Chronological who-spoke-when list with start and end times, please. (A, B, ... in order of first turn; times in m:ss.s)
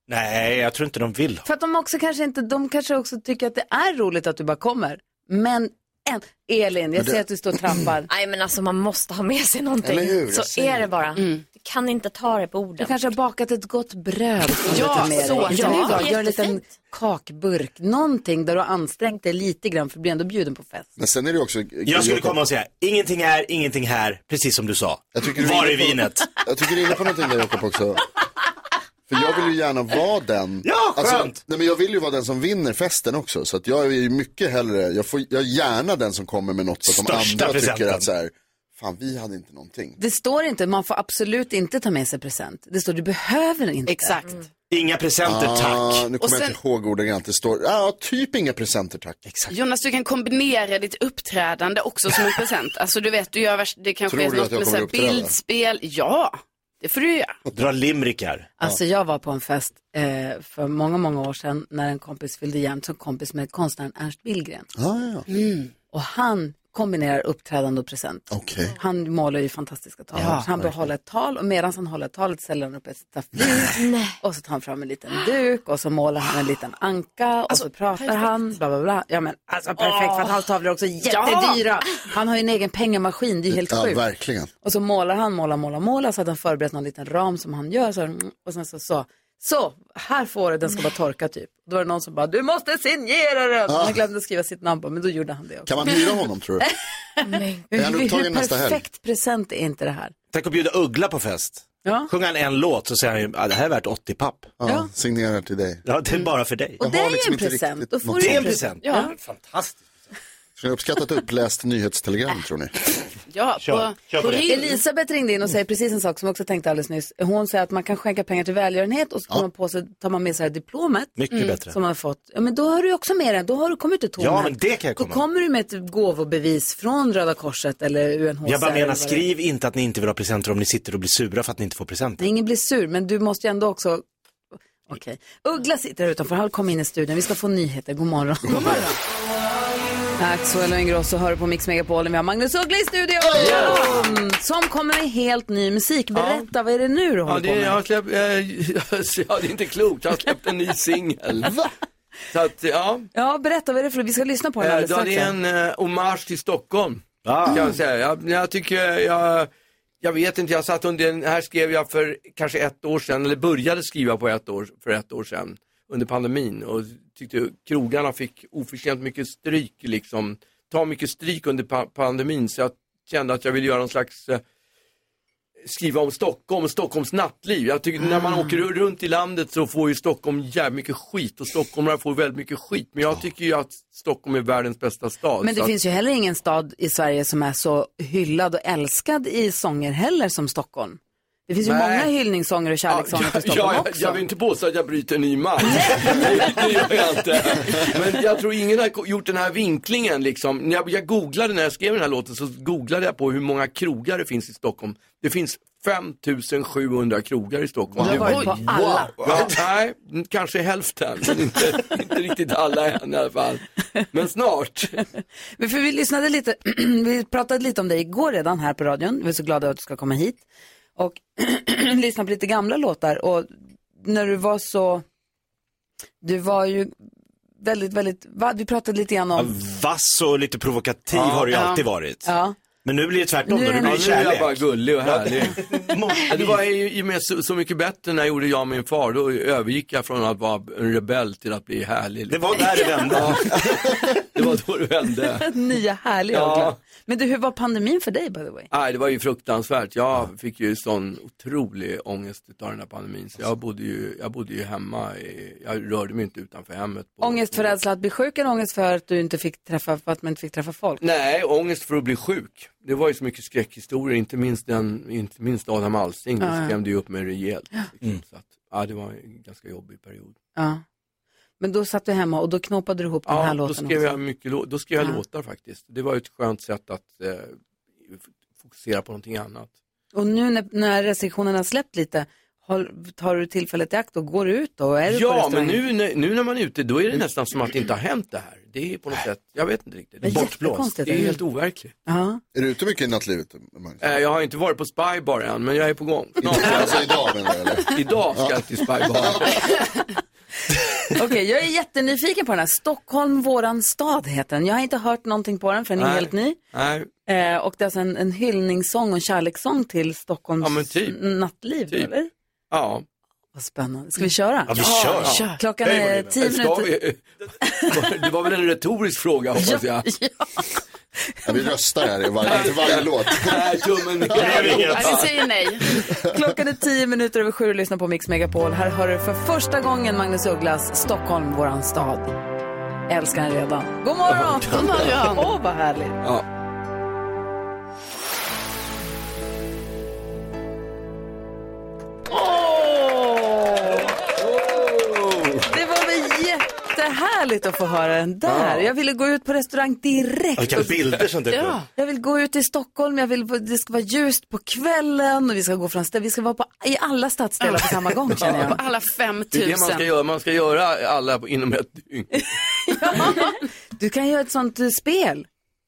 0:00.1-0:01.4 A
0:01.4-0:08.1 B
0:07.0-0:07.8 C
0:08.1-0:13.0 D
0:09.8-0:10.9 C
0:11.2-0:11.4 E
0:12.8-0:20.9 B
0:14.7-0:16.0 E
0:15.1-0:16.7 D
0:21.0-0:22.4 C
0:21.9-0:26.3 A
0:25.1-0:28.0 C
0:29.1-0:40.0 C
0:30.6-0:31.4 A
0:36.9-0:38.0 A
0:40.0-0:44.2 B
0:43.9-0:44.4 E
0:44.7-0:46.1 A
0:45.2-0:49.2 C
0:46.2-0:46.6 E
0:49.3-0:49.5 A
0:49.5-0:57.4 E
0:54.1-0:55.3 C
0:57.5-0:58.5 A
0:58.6-1:04.7 B
1:04.8-1:05.3 C
1:05.3-1:05.7 E
1:05.9-1:08.3 B
1:08.3-1:08.8 C
1:08.8-1:24.0 B
1:10.2-1:10.8 C
1:13.8-1:14.2 D
1:17.5-1:18.3 E
1:19.8-1:20.2 E
1:21.1-1:21.6 E
1:23.5-1:24.5 C
1:24.6-1:36.0 B
1:33.7-1:34.0 C
1:35.7-1:36.6 C
1:36.6-1:40.1 B
1:37.2-1:37.7 D
1:37.7-1:38.8 C
1:40.3-1:44.5 A
1:41.8-1:42.1 B
1:44.6-1:45.8 C
1:45.8-1:46.8 A
1:46.8-1:48.4 C
1:46.8-1:49.1 B
1:48.2-1:49.8 A
1:48.8-1:49.1 E
1:50.6-1:52.8 C
1:53.3-1:54.8 E
1:53.6-1:54.6 A
1:54.4-2:01.2 B
2:01.2-2:01.8 A
2:01.3-2:01.6 E
2:01.7-2:09.3 B
2:04.2-2:05.2 A
2:08.4-2:12.2 A
2:12.2-2:14.0 B
2:14.9-2:18.8 B
2:18.5-2:18.8 C
2:18.5-2:19.0 E
2:20.2-2:27.8 B
2:23.3-2:23.8 C
2:23.4-2:24.0 E
2:26.2-2:26.5 F
2:27.3-2:31.6 F
2:32.3-2:33.1 F
2:33.1-2:35.3 B
2:34.6-2:39.5 F
2:37.2-2:37.8 A
2:40.0-2:54.4 F
2:55.6-3:05.7 F
2:58.2-2:58.5 B
3:05.4-3:14.2 B
3:11.6-3:12.1 F
3:12.9-3:28.7 F
3:15.6-3:16.6 B
3:28.0-3:29.1 B
3:28.2-3:28.6 E
3:29.2-3:35.0 F
3:35.6-3:40.4 B
3:41.0-3:45.0 B
3:46.2-3:46.9 B
3:47.6-3:49.6 B
3:49.4-3:52.3 A
3:51.1-3:51.5 F
3:51.5-3:51.8 E
3:52.2-3:52.6 B
3:52.8-3:56.6 A
3:53.4-3:54.1 B
3:53.8-3:55.6 F
3:56.2-4:05.5 F
4:02.3-4:03.9 A
4:05.4-4:08.7 B
4:06.3-4:06.8 F
4:08.7-4:17.8 F
4:17.2-4:21.0 B
4:21.0-4:30.4 F
4:26.4-4:26.8 B
4:30.6-4:30.8 B
4:31.6-4:34.2 B
4:33.3-4:37.6 F
4:38.1-4:39.7 F
4:40.1-4:45.8 B
4:45.1-4:50.5 F
4:50.2-4:51.4 B
4:50.2-4:51.0 A
4:51.1-4:51.9 F
4:52.1-4:52.4 B
4:52.5-4:54.2 C
4:54.0-4:57.2 F
4:56.4-4:59.5 C
4:57.9-4:59.7 F
5:01.1-5:06.6 B
5:06.0-5:07.1 F
5:07.3-5:12.3 B
5:10.6-5:11.2 F
5:12.7-5:13.0 F
5:13.6-5:14.8 B
5:14.7-5:16.2 A
5:14.8-5:15.6 E
5:15.2-5:15.4 F
5:15.6-5:16.9 B
5:16.4-5:17.2 F
5:17.6-5:17.9 B
5:17.9-5:20.1 F
5:19.6-5:20.6 B
5:21.4-5:23.8 C
5:22.4-5:25.3 F
5:24.3-5:26.0 E
5:24.4-5:25.3 A
5:26.2-5:32.4 B
5:33.1-5:36.2 B
5:34.7-5:35.6 E
5:42.3-5:44.1 B
5:44.4-5:45.7 F
5:45.7-5:50.9 B
5:48.5-5:48.9 F
5:50.6-5:51.8 A
5:51.0-5:51.2 F
5:51.5-5:51.9 E
5:52.0-5:58.8 B
5:57.6-6:00.1 E
5:58.3-5:58.8 F
5:59.5-6:02.5 F
6:02.8-6:05.5 B